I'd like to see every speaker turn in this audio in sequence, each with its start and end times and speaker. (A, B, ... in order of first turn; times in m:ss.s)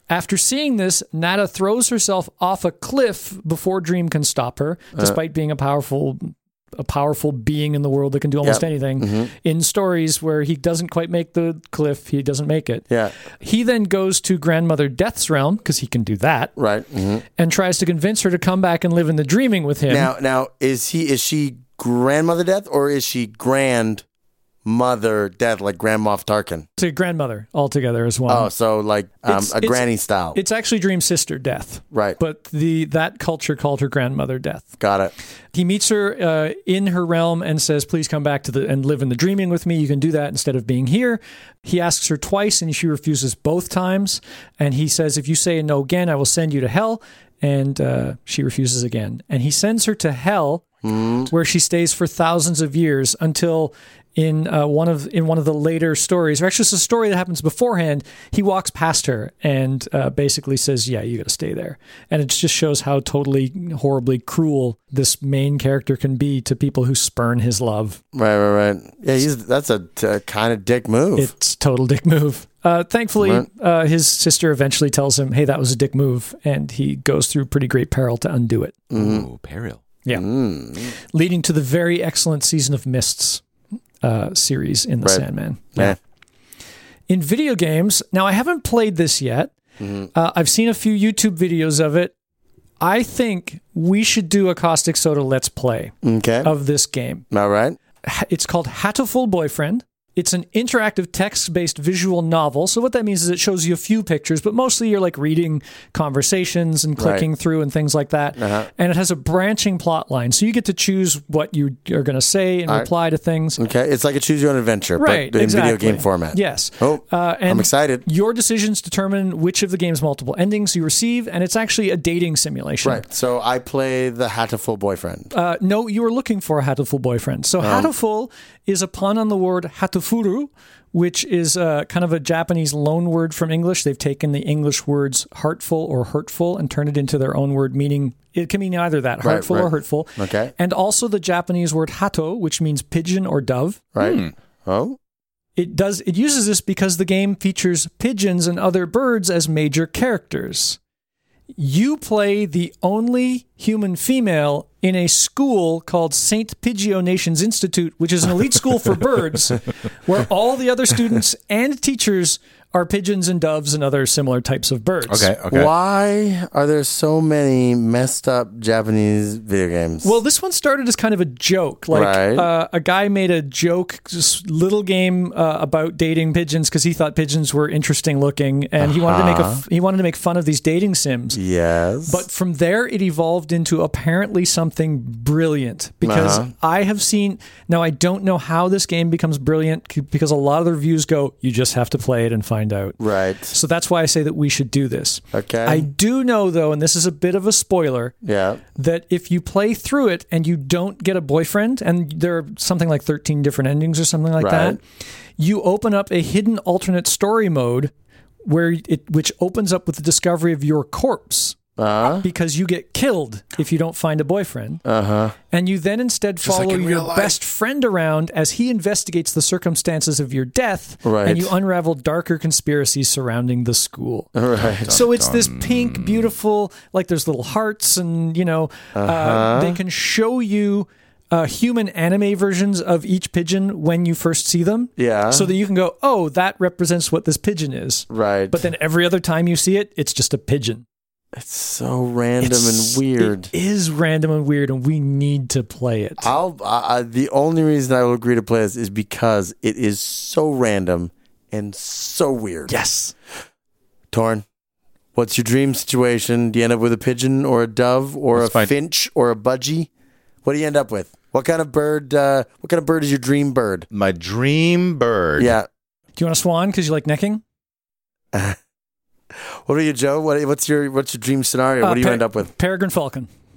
0:00.1-0:12.8 A
0:08.4-0:09.3 B
0:13.4-0:16.5 A
0:16.6-0:17.2 B
0:17.4-0:20.1 A
0:19.9-0:24.0 B
0:24.6-0:26.8 B
0:26.8-0:28.5 A
0:28.3-0:30.4 B
0:29.3-0:34.7 A
0:31.9-0:32.2 B
0:34.8-0:35.1 B
0:35.5-0:50.7 A
0:50.8-0:51.3 B
0:51.3-1:08.0 A
1:08.1-1:11.3 B
1:11.2-1:18.8 A
1:13.2-1:13.4 B
1:18.9-1:19.3 B
1:19.0-1:19.8 C
1:20.1-1:20.9 B
1:21.1-1:23.4 A
1:24.0-1:26.0 A
1:27.1-1:29.5 A
1:29.8-1:30.1 B
1:30.1-1:32.1 A
1:32.8-1:35.9 A
1:36.0-1:36.5 B
1:36.4-1:37.2 A
1:37.3-1:37.8 B
1:38.0-1:53.6 A
1:47.0-1:47.3 B
1:48.4-1:48.7 B
1:53.6-1:58.0 B
1:55.0-2:03.0 A
2:02.8-2:05.3 B
2:05.3-2:24.2 A
2:07.6-2:07.9 B
2:19.2-2:20.5 B
2:24.0-2:25.0 B
2:25.6-2:30.8 A
2:31.6-2:45.3 A
2:45.1-2:45.7 C
2:45.5-2:50.1 B
2:50.0-3:01.4 A
2:51.9-2:52.5 B
2:58.8-2:59.6 B
3:01.4-3:02.2 B
3:02.1-3:13.0 A
3:06.0-3:06.5 B
3:13.0-3:13.6 B
3:13.5-3:18.2 A
3:15.3-3:15.9 B
3:18.2-3:18.6 B
3:18.8-3:24.8 A
3:24.4-3:24.8 B
3:25.4-3:27.9 A
3:28.4-3:31.6 A
3:31.8-3:32.2 B
3:32.1-3:34.8 A
3:34.9-3:35.4 B
3:35.5-3:44.3 A
3:36.4-3:37.4 C
3:41.0-3:41.5 B
3:44.4-3:45.0 B
3:44.6-3:46.3 C
3:44.9-4:00.8 A
3:49.0-3:49.8 B
3:55.0-3:55.5 B
3:58.1-3:58.6 B
4:01.4-4:03.5 B
4:02.4-4:06.3 A
4:06.2-4:12.7 B
4:12.7-4:13.1 A
4:14.1-4:14.4 B
4:15.2-4:19.9 B
4:18.3-4:18.7 C
4:20.4-4:23.9 B
4:23.9-4:25.5 C
4:25.4-4:25.7 B
4:26.2-4:27.4 A
4:29.4-4:32.5 B
4:31.8-4:33.3 A